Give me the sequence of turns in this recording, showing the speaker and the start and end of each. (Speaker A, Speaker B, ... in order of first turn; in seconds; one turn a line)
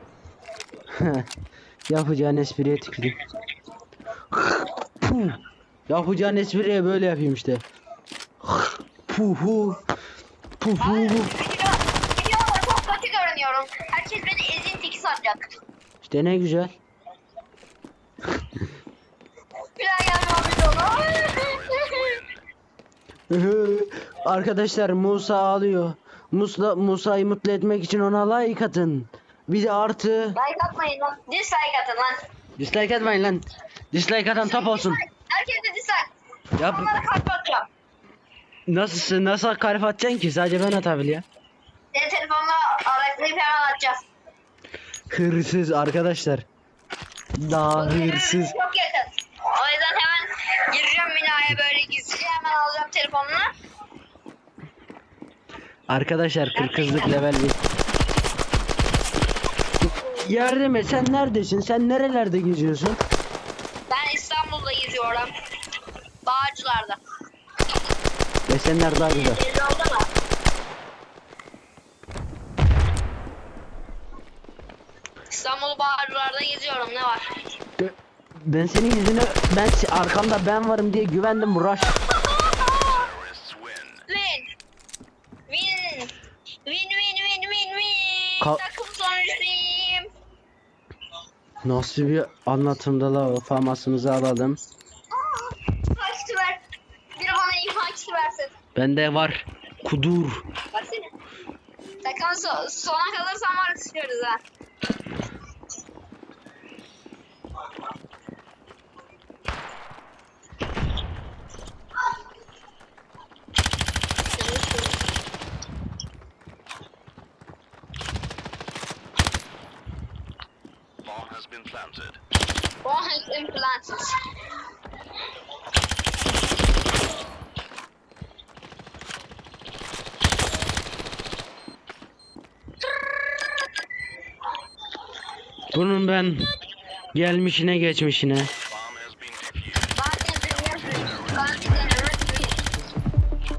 Speaker A: 0.9-1.3
Speaker A: 1.9-3.2
Speaker A: 4.3-7.6
Speaker A: 8.4-9.8
Speaker A: 10.6-11.3
Speaker B: 10.8-15.6
Speaker A: 16.0-16.7
Speaker B: 19.8-22.2
Speaker C: 21.6-22.4
Speaker A: 23.3-30.4
Speaker B: 30.3-32.2
Speaker A: 32.6-35.0
Speaker B: 34.4-37.7
Speaker A: 36.6-36.9
Speaker A: 38.7-41.2
Speaker B: 41.9-44.0
Speaker A: 45.1-46.5
Speaker A: 47.4-48.5
Speaker B: 47.8-53.5
Speaker A: 55.9-57.6
Speaker B: 56.5-57.2
Speaker A: 60.0-63.0
Speaker B: 63.9-65.3
Speaker B: 66.2-67.0
Speaker A: 68.5-69.4
Speaker B: 69.0-70.1
Speaker B: 75.3-77.3
Speaker A: 77.8-82.0
Speaker B: 82.1-83.1
Speaker C: 82.9-84.0
Speaker B: 84.1-84.5
Speaker B: 85.5-90.1
Speaker A: 91.6-94.6
Speaker B: 95.1-96.6
Speaker B: 97.2-98.5
Speaker A: 98.8-100.4
Speaker B: 100.7-101.1
Speaker B: 102.0-104.4
Speaker B: 114.3-115.0
Speaker C: 121.0-122.2
Speaker B: 122.8-124.2
Speaker A: 135.7-136.5
Speaker A: 137.1-138.5
Speaker C: 138.7-139.9
Speaker B: 139.9-142.6